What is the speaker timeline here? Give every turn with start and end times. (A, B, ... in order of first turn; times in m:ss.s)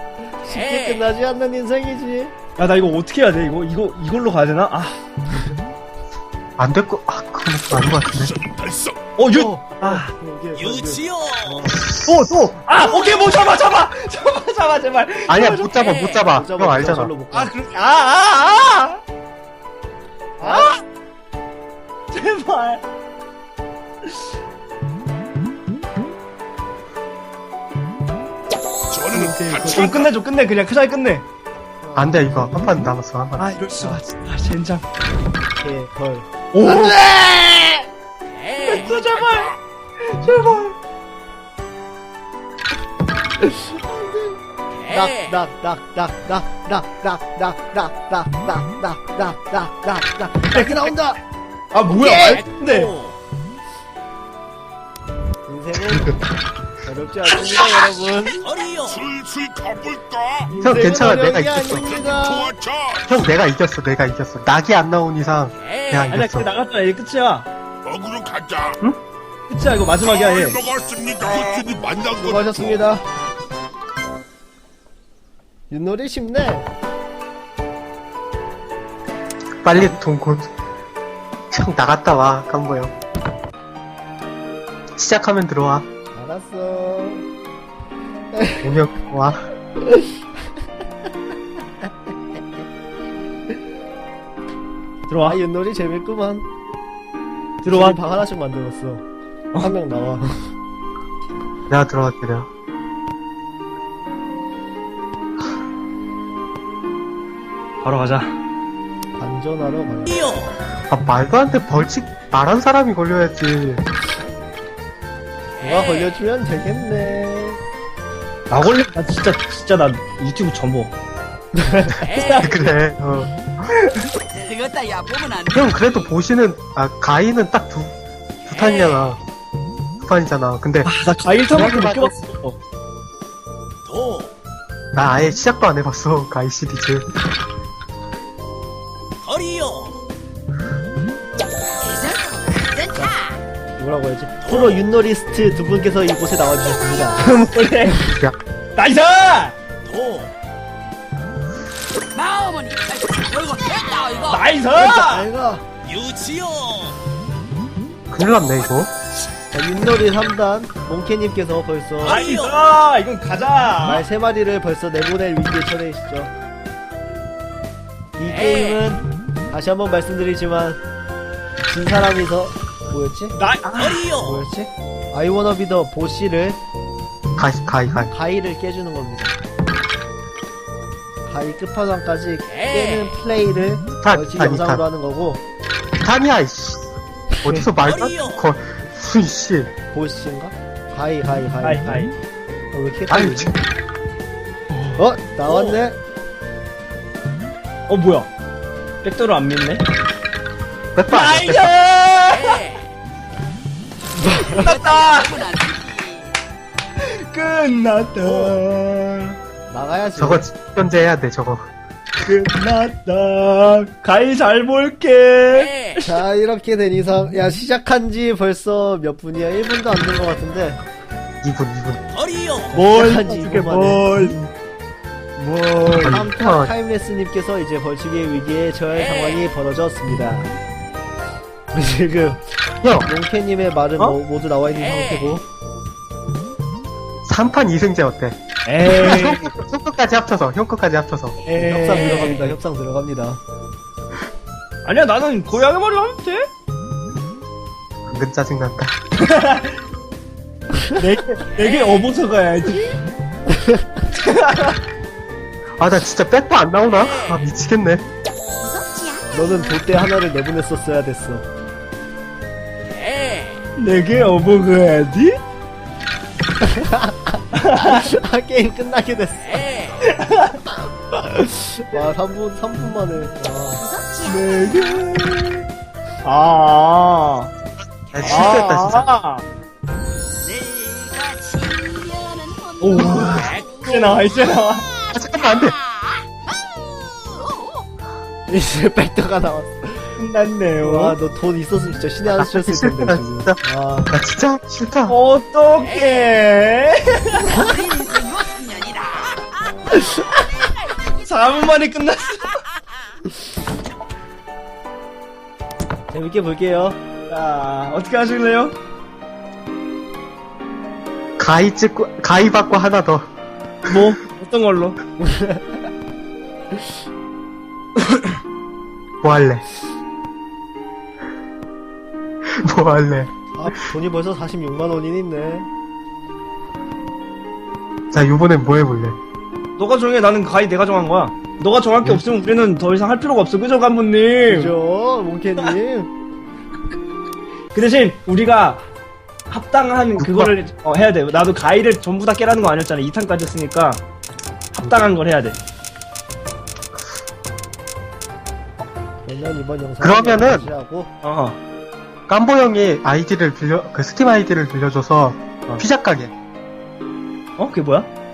0:00.3-0:02.4 A
0:02.6-0:05.0 B
0:06.6-0:08.3 C
0:08.2-0:09.0 D
0:09.2-0:10.1 B
0:09.3-0:11.8 A
0:11.7-0:12.2 C
0:12.1-0:16.0 B
0:15.3-0:17.1 C
0:16.3-0:17.5 A
0:17.3-0:19.0 B
0:20.4-0:20.7 A
0:20.4-0:20.8 B
0:22.1-0:22.8 B
0:28.9-0:29.7 D
0:29.1-0:31.2 B
0:31.8-0:32.6 A
0:32.0-0:33.5 C
0:33.4-0:34.8 B
0:35.6-0:36.3 A
0:36.5-0:37.7 B
0:38.7-0:40.8 B
0:43.4-0:51.2 A
0:50.5-0:50.9 B
0:51.7-0:52.9 B
0:51.9-0:52.4 A
0:55.5-0:56.2 A
0:56.8-0:58.5 A
0:58.8-1:00.5 D
1:00.5-1:02.6 A
1:00.6-1:01.9 C
1:01.9-1:03.2 D
1:03.1-1:06.5 C
1:06.1-1:07.5 B
1:07.8-1:08.8 D
1:09.5-1:10.6 B
1:10.4-1:12.8 D
1:12.2-1:13.1 A
1:15.7-1:16.7 A
1:19.6-1:20.5 C
1:21.5-1:22.9 C
1:25.0-1:25.9 C
1:26.1-1:27.3 A
1:28.3-1:28.8 A
1:28.6-1:29.5 C
1:29.8-1:30.1 A
1:35.1-1:35.4 B
1:35.2-1:36.5 A
1:37.6-1:38.0 B
1:37.7-1:39.0 A
1:39.6-1:40.3 A
1:41.7-1:42.5 C
1:47.8-1:48.4 B
1:49.2-1:50.3 A
1:50.9-1:53.8 C
1:55.6-1:57.6 A
1:58.5-2:00.9 B
2:01.6-2:02.0 A
2:02.1-2:02.5 B
2:02.4-2:03.7 C
2:05.5-2:07.9 C
2:08.4-2:09.2 C
2:10.0-2:10.9 C
2:10.8-2:12.6 B
2:11.5-2:12.2 C
2:15.0-2:17.1 C
2:21.8-2:23.3 E
2:22.9-2:23.2 A
2:23.8-2:27.3 A
2:27.2-2:28.0 B
2:28.8-2:29.6 B
2:32.1-2:34.0 E
2:34.2-2:35.3 B
2:34.7-2:35.6 A
2:38.1-2:38.9 C
2:39.5-2:42.2 A
2:42.0-2:44.0 B
2:43.8-2:46.3 A
2:48.2-2:50.8 A
2:51.6-2:53.4 A
2:53.4-2:54.1 B
2:54.1-2:56.6 A
2:57.4-2:58.1 C
2:58.1-2:59.4 A
3:01.3-3:05.4 A
3:04.0-3:04.8 C
3:06.0-3:06.9 C
3:07.4-3:09.7 C
3:09.9-3:12.0 A
3:11.6-3:12.1 B
3:12.7-3:13.5 A
3:13.1-3:13.5 C
3:14.7-3:15.8 B
3:15.0-3:16.0 A
3:17.9-3:18.3 B
3:19.0-3:19.8 B
3:21.0-3:21.7 C
3:21.1-3:22.7 B
3:24.2-3:24.8 A
3:24.5-3:25.5 B
3:25.5-3:26.3 E
3:27.0-3:29.4 B
3:29.7-3:30.5 A
3:30.2-3:31.7 C
3:32.3-3:35.8 B
3:36.0-3:40.8 A
3:41.4-3:42.0 C
3:42.7-3:44.4 B
3:42.7-3:44.1 A
3:45.4-3:46.1 B
3:46.0-3:46.7 C
3:46.0-3:50.5 A
3:51.7-3:52.4 A
3:52.8-3:53.1 C
3:53.0-3:55.4 A
3:57.3-3:58.4 C
3:58.7-3:59.5 B
3:58.9-4:01.4 C
4:01.4-4:02.6 B
4:01.5-4:03.4 A
4:04.8-4:06.5 B
4:08.1-4:08.9 C
4:09.2-4:09.8 B
4:11.0-4:13.0 B
4:14.1-4:14.8 B
4:15.8-4:18.0 C
4:18.6-4:19.8 E
4:19.3-4:21.4 A
4:23.8-4:25.4 B
4:26.6-4:29.7 A
4:27.5-4:28.0 B
4:30.0-4:30.6 B
4:31.1-4:33.8 A
4:33.8-4:35.0 E
4:34.2-4:35.7 B
4:36.2-4:37.5 B
4:38.1-4:39.1 C
4:38.2-4:39.4 B
4:40.4-4:44.3 E
4:42.8-4:44.8 B
4:43.0-4:43.5 C
4:45.1-4:45.8 C
4:45.9-4:47.8 E
4:48.5-4:50.1 A
4:50.2-4:51.2 B
4:50.8-4:54.1 A
4:52.3-4:53.6 C
4:54.1-4:55.2 C
4:55.1-4:57.6 B
4:57.6-4:59.5 E
5:01.1-5:02.6 B
5:06.1-5:07.0 A
5:07.3-5:08.8 B
5:11.4-5:13.3 C
5:13.9-5:15.0 B
5:15.2-5:15.8 A
5:19.2-5:19.6 C
5:22.5-5:23.7 C
5:23.5-5:25.7 A
5:28.1-5:29.2 C
5:29.8-5:34.7 B
5:34.5-5:36.1 A
5:37.7-5:38.8 B
5:39.5-5:44.0 B
5:40.2-5:40.5 C
5:44.7-5:45.6 B
5:49.2-5:51.1 A
5:50.0-5:50.7 C
5:51.2-5:51.6 B
5:52.3-5:56.3 C
5:57.6-5:58.1 B